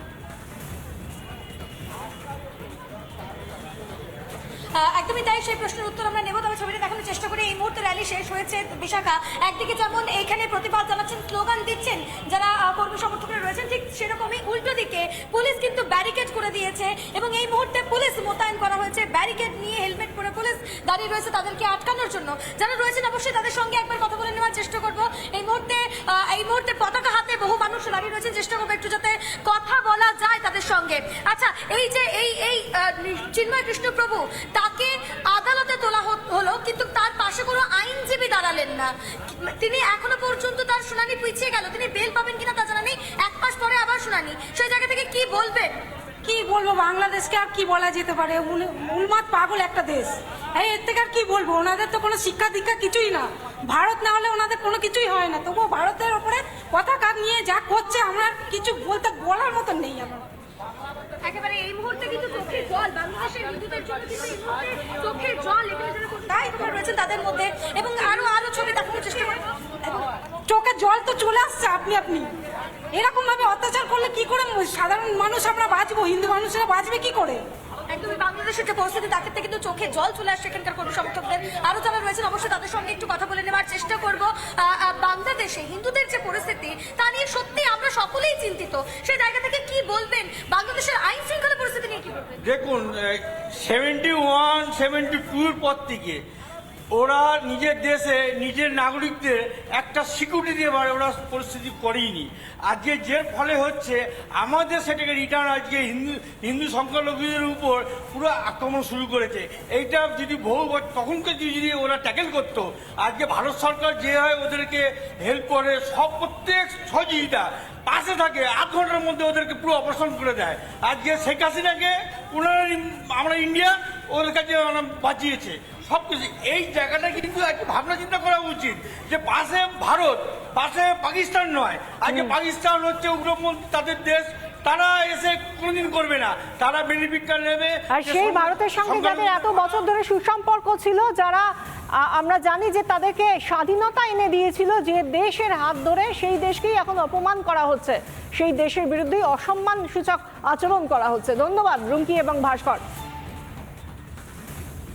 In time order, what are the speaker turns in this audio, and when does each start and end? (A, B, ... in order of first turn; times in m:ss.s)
0:04.7-0:45.8 A
0:46.2-1:00.2 B
1:01.2-1:10.1 A
1:10.5-1:12.3 B
1:12.9-1:17.4 B
1:17.9-1:32.4 A
1:32.4-1:36.2 C
1:37.0-2:19.6 C
2:12.1-2:12.4 D
2:17.9-2:21.5 D
2:22.0-2:32.8 D